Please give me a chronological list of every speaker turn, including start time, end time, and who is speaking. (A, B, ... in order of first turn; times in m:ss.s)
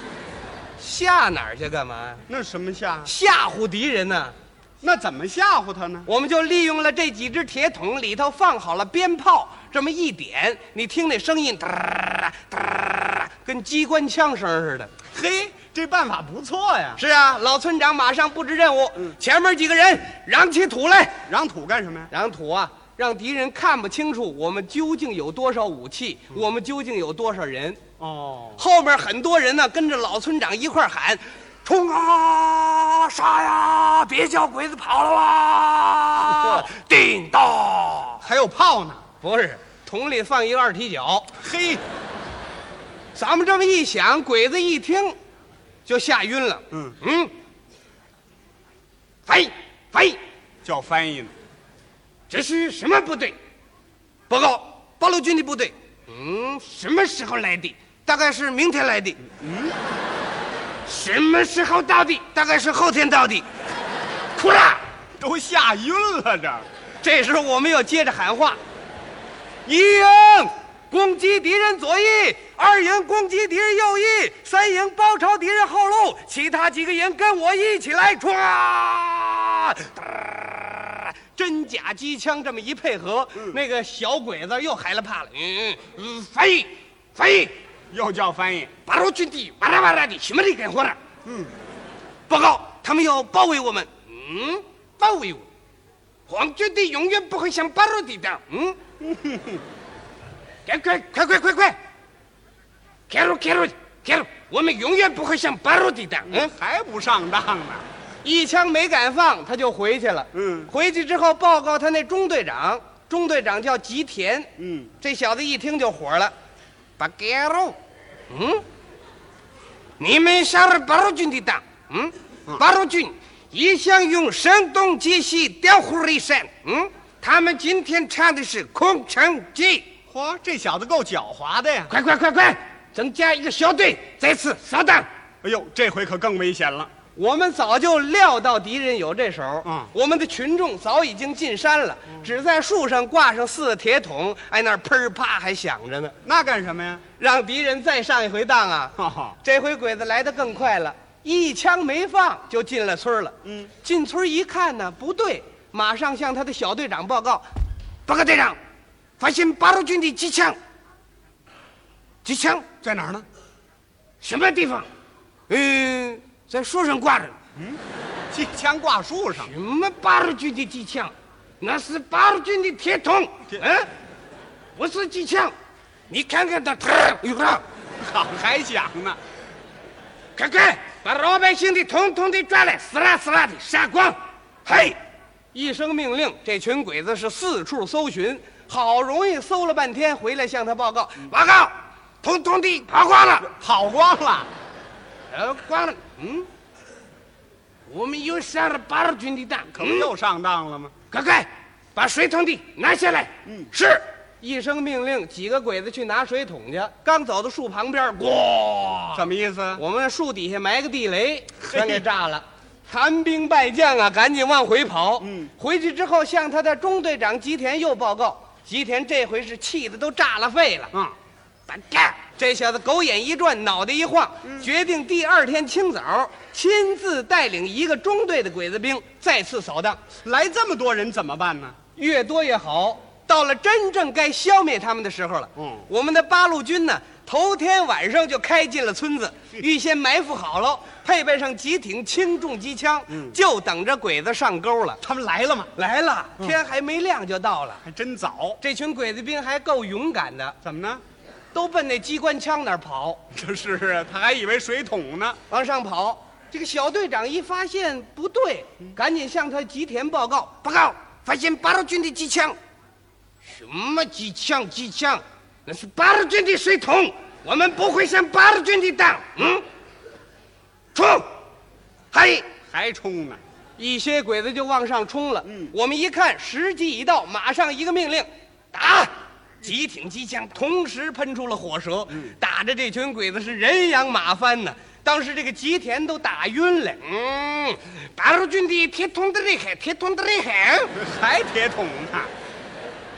0:00.8-0:02.2 A
0:02.3-0:03.1 B
0:03.0-0:04.3 A
0:04.8-0:06.1 B
0:06.0-0:14.9 A
0:15.1-0:17.0 B
0:17.0-0:21.2 A
0:21.3-0:22.1 B
0:22.1-0:27.8 A
0:28.0-0:28.6 B
0:28.6-0:38.2 A
0:36.3-0:36.6 B
0:38.2-0:39.0 B
0:39.2-0:41.3 A
0:41.4-0:41.8 B
0:43.1-0:45.2 A
0:45.8-0:47.3 A
0:49.2-0:50.2 A
0:50.6-0:51.3 B
0:52.3-0:53.4 A
0:54.3-0:59.2 A
0:59.3-0:59.8 B
1:00.8-1:03.4 A
1:04.3-1:04.8 A
1:05.2-1:06.6 B
1:07.0-1:08.6 A
1:09.6-1:27.5 A
1:27.9-1:28.7 B
1:28.9-1:31.0 A
1:31.2-1:31.5 B
1:32.3-1:35.4 A
1:36.3-1:38.8 A
1:39.0-1:39.6 B
1:40.6-1:41.8 A
1:43.1-1:46.5 A
1:46.2-1:47.8 B
1:48.2-1:54.5 A
1:50.3-1:50.7 B
1:54.6-1:54.9 B
1:55.0-1:56.3 A
1:57.0-1:57.8 A
1:58.3-1:58.6 A
2:00.0-2:09.8 A
2:10.1-2:11.9 B
2:11.9-2:15.1 A
2:15.4-2:16.9 B
2:17.2-2:26.1 A
2:19.6-2:19.9 B
2:26.2-2:27.0 B
2:27.2-2:37.4 A
2:29.0-2:29.4 B
2:33.4-2:33.7 B
2:38.0-2:38.6 A
2:39.2-2:40.6 A
2:42.2-2:42.7 A
2:42.8-2:43.2 B
2:44.2-2:44.9 A
2:45.5-2:47.4 A
2:48.3-2:49.5 B
2:49.4-2:53.9 A
2:54.8-2:55.5 A
2:56.1-2:57.6 A
2:58.0-2:59.2 B
3:00.4-3:05.0 A
3:05.5-3:13.5 A
3:13.4-3:14.5 B
3:15.3-3:16.5 A
3:17.9-3:20.1 A
3:19.7-3:20.9 B
3:21.1-3:29.2 A
3:29.1-3:29.8 B
3:29.8-3:40.9 A
3:31.7-3:32.0 B
3:35.2-3:35.5 B
3:41.7-3:50.0 A
3:50.2-3:51.8 B
3:52.0-4:05.0 A
3:55.6-3:55.8 B
4:03.1-4:03.4 B
4:05.0-4:05.7 B
4:05.8-4:07.8 A
4:07.8-4:08.6 B
4:08.6-4:10.6 A
4:10.6-4:11.0 B
4:11.5-4:13.2 A
4:13.3-4:15.4 B
4:15.5-4:22.6 A
4:23.4-4:29.6 A
4:30.9-4:31.3 A
4:32.1-4:32.5 A
4:32.7-4:33.4 B
4:33.8-4:50.9 A
4:35.4-4:35.7 B
4:50.9-4:52.3 B